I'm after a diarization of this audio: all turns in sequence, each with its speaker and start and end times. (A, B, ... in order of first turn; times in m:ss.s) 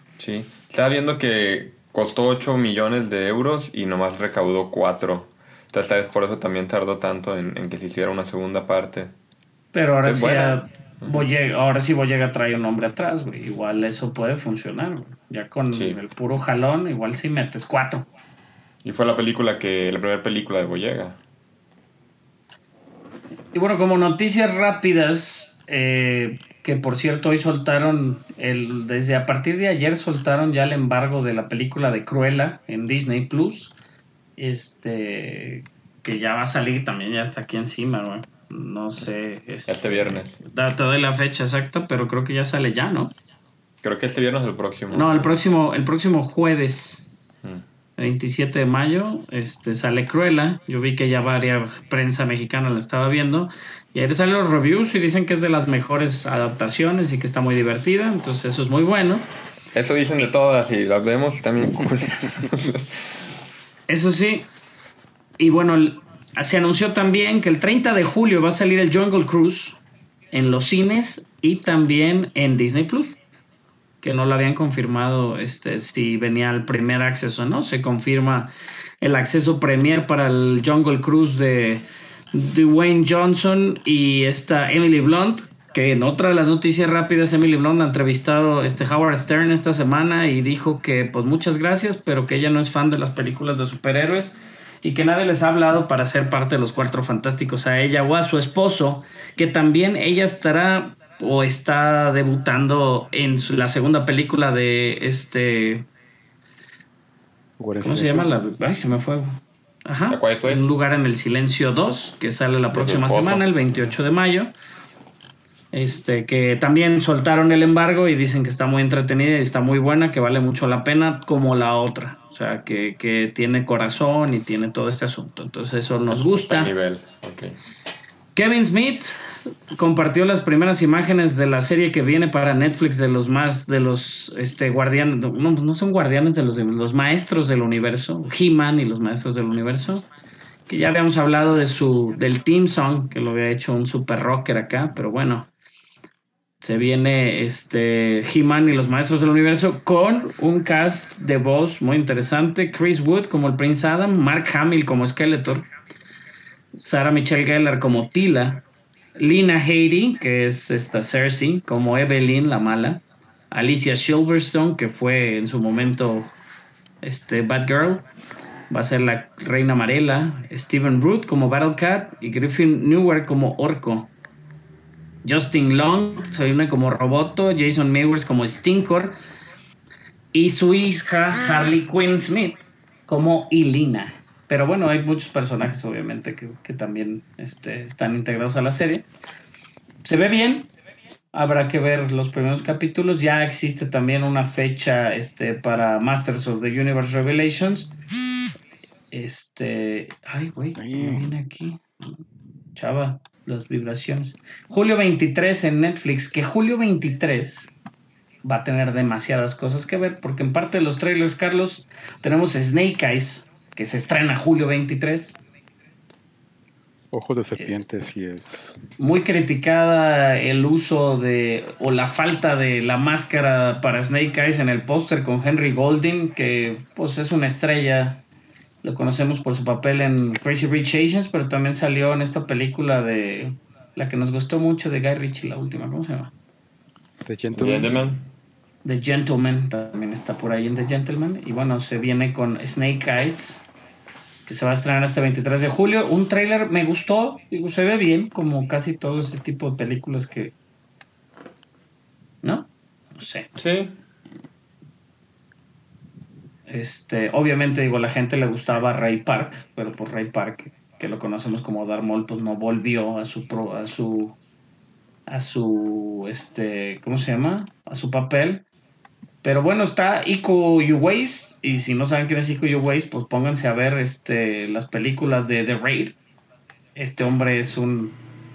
0:00.2-0:09.1 A
0:09.7-0:18.0 B
0:10.0-0:11.2 A
0:15.7-0:16.0 A
0:18.8-0:21.2 A
0:23.5-0:33.8 B
0:34.4-0:43.1 B
0:39.7-0:40.4 A
0:43.8-0:45.3 A
0:44.9-0:47.1 B
0:48.0-0:59.3 B
0:59.7-1:02.9 A
1:03.9-1:04.5 B
1:05.4-1:09.8 B
1:10.3-1:13.2 B
1:14.0-1:45.9 B
1:47.6-1:48.3 C
1:47.8-1:54.5 B
1:50.1-1:50.7 A
1:52.7-1:53.5 A
1:55.7-2:06.7 B
2:06.1-2:07.6 A
2:08.3-2:09.2 B
2:09.7-2:20.1 B
2:20.7-2:25.5 B
2:26.6-2:35.6 B
2:36.7-2:38.6 B
2:39.2-2:46.3 B
2:47.0-2:48.0 B
2:48.7-2:54.1 B
2:55.2-2:59.2 B
3:00.3-3:09.0 B
3:10.0-3:10.7 B
3:11.3-3:17.9 B
3:19.1-3:22.2 B
3:20.7-3:21.3 C
3:22.7-3:27.8 B
3:28.4-3:35.4 B
3:37.1-3:38.8 C
3:39.0-3:48.2 B
3:48.8-3:56.3 B
3:57.2-3:57.9 C
3:57.5-3:58.2 A
3:58.8-4:03.6 B
4:04.4-4:10.5 B
4:12.4-4:13.5 B
4:13.5-4:13.9 A
4:16.7-4:24.4 B
4:25.3-4:28.6 B
4:29.4-4:36.2 B
4:36.9-4:38.2 B